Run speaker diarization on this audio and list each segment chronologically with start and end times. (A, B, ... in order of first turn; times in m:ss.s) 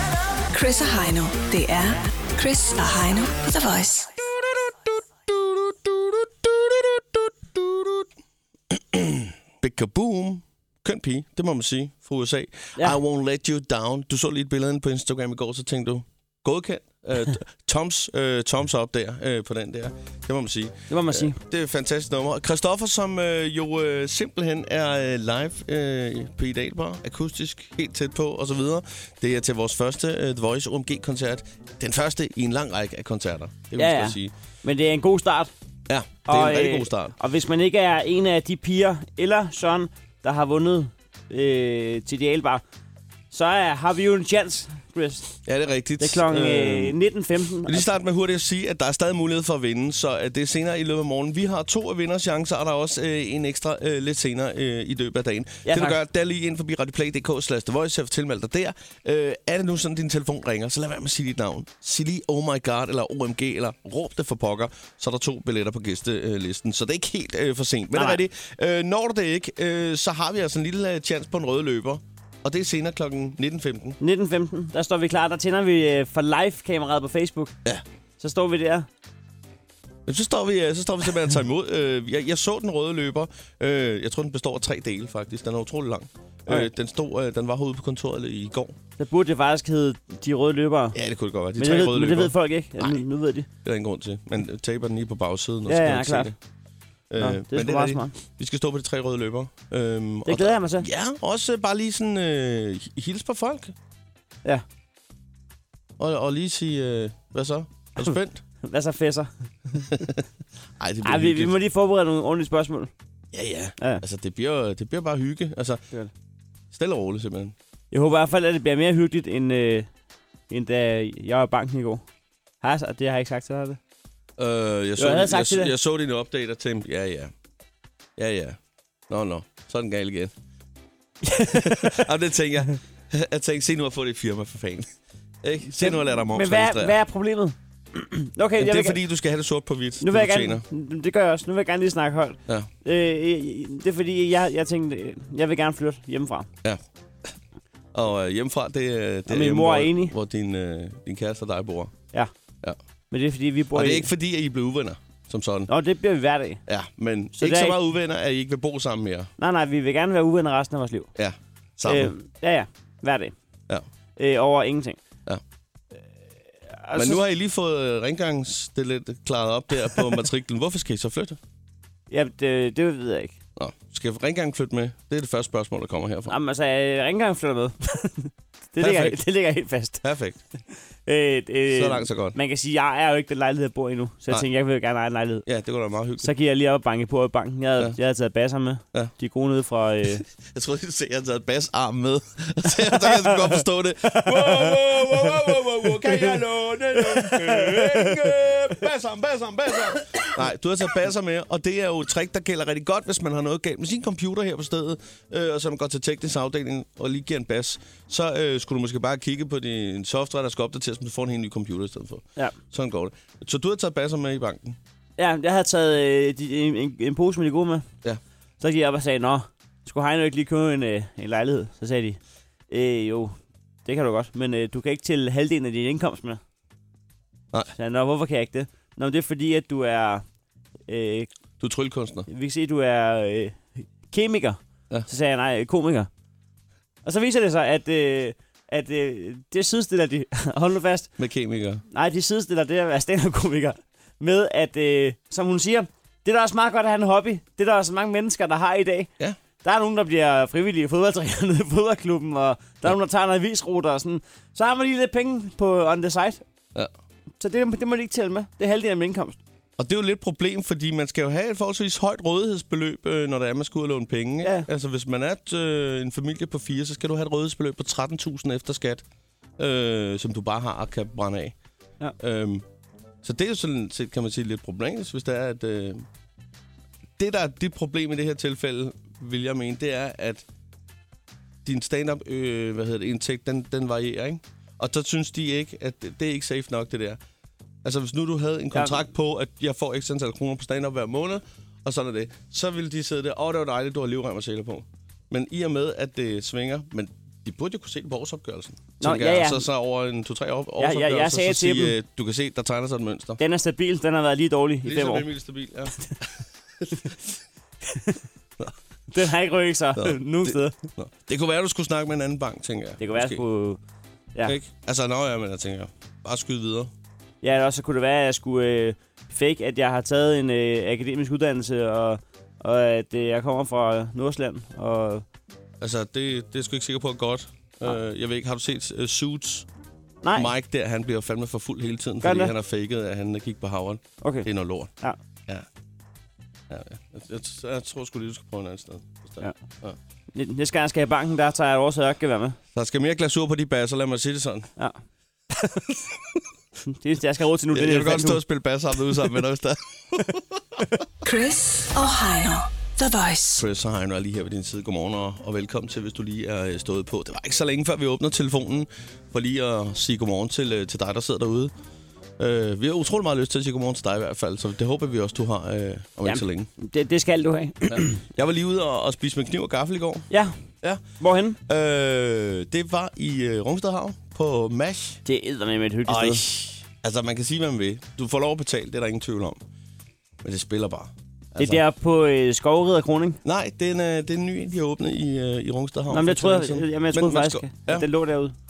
0:00.5-0:04.1 A
0:04.2-0:08.1 B
0:08.7-0:34.3 B
0:20.9-0:21.4 C
0:33.8-0:35.5 C
0:35.9-0:37.1 B
0:36.3-0:42.6 C
0:43.3-0:45.3 C
0:45.4-0:47.0 B
0:46.0-0:47.9 C
0:47.6-1:14.0 B
0:55.7-0:56.0 C
1:07.9-1:08.2 C
1:14.0-1:17.6 C
1:18.2-1:18.9 C
1:20.1-1:28.8 B
1:29.0-1:31.0 C
1:30.9-1:33.0 B
1:31.6-1:33.5 C
1:33.6-1:36.4 B
1:35.7-1:36.3 C
1:37.1-1:43.8 B
1:37.2-1:38.2 C
1:40.3-1:40.9 C
1:46.0-1:48.4 B
1:48.0-1:49.3 C
1:49.8-1:50.3 B
1:50.8-1:51.6 B
1:51.0-1:52.9 C
1:53.3-1:55.8 B
1:56.7-1:57.6 B
1:57.9-1:59.9 C
2:00.5-2:02.0 C
2:02.6-2:03.8 C
2:04.4-2:07.3 B
2:05.0-2:05.7 C
2:08.2-2:08.6 B
2:09.1-2:10.3 B
2:11.2-2:12.0 C
2:11.5-2:17.0 B
2:15.7-2:19.0 C
2:18.6-2:20.6 B
2:20.0-2:26.5 C
2:26.6-2:27.3 B
2:27.9-2:31.9 B
2:29.3-2:30.2 C
2:33.1-2:34.1 C
2:33.7-2:35.7 B
2:35.7-2:36.6 C
2:36.7-2:39.3 B
2:37.4-2:37.8 C
2:39.4-2:41.1 C
2:41.2-2:42.1 B
2:41.9-2:43.4 C
2:44.2-2:45.0 C
2:46.7-2:47.2 C
2:47.0-2:51.4 B
2:52.1-2:53.4 C
2:53.6-2:56.4 B
2:56.3-3:00.0 C
2:58.8-2:59.2 B
3:00.0-3:00.4 B
3:01.1-3:05.4 C
3:01.7-3:02.4 B
3:05.5-3:06.3 B
3:06.2-3:10.2 C
3:10.3-3:34.8 B
3:12.9-3:13.6 C
3:14.1-3:14.7 C
3:16.0-3:16.3 C
3:17.2-3:18.2 C
3:35.2-3:37.9 C
3:38.6-3:42.2 C
3:42.7-3:46.4 C
3:47.8-3:50.2 C
3:50.9-3:51.3 C
3:51.6-3:52.3 B
3:52.3-3:56.1 C
3:57.0-4:01.1 C
4:01.2-4:01.8 B
4:01.9-4:09.1 C
4:09.6-4:16.4 C
4:17.4-4:19.4 C
4:19.8-4:29.0 B
4:29.6-4:31.6 B
4:32.2-4:32.6 B
4:33.2-4:36.0 B
4:37.2-4:40.4 B
4:41.6-4:47.2 B
4:47.8-5:03.4 B
4:59.0-4:59.6 C
5:00.8-5:02.0 C
5:03.4-5:05.3 C
5:04.8-5:07.3 B
5:07.9-5:08.2 C
5:09.1-5:10.8 C
5:10.0-5:13.4 B
5:13.0-5:13.8 C
5:14.4-5:16.9 B
5:17.4-5:25.2 C
5:25.8-5:29.7 B
5:30.2-5:30.5 C
5:30.4-5:34.9 B
5:32.2-5:32.5 C
5:34.2-5:34.5 C
5:36.7-5:40.0 B
5:40.3-5:42.6 C
5:42.7-5:44.7 B
5:46.9-5:48.4 C
5:47.7-5:50.6 B
5:51.2-5:53.6 A
5:53.6-6:01.7 B
6:02.4-6:06.7 B
6:06.3-6:08.2 C
6:07.9-6:10.3 B
6:10.3-6:10.6 C
6:11.2-6:11.6 C
6:11.7-6:15.2 B
6:15.2-6:16.4 C
6:16.1-6:19.6 B
6:20.4-6:21.8 B
6:21.6-6:23.4 C
6:23.4-6:28.1 B
6:26.1-6:28.6 C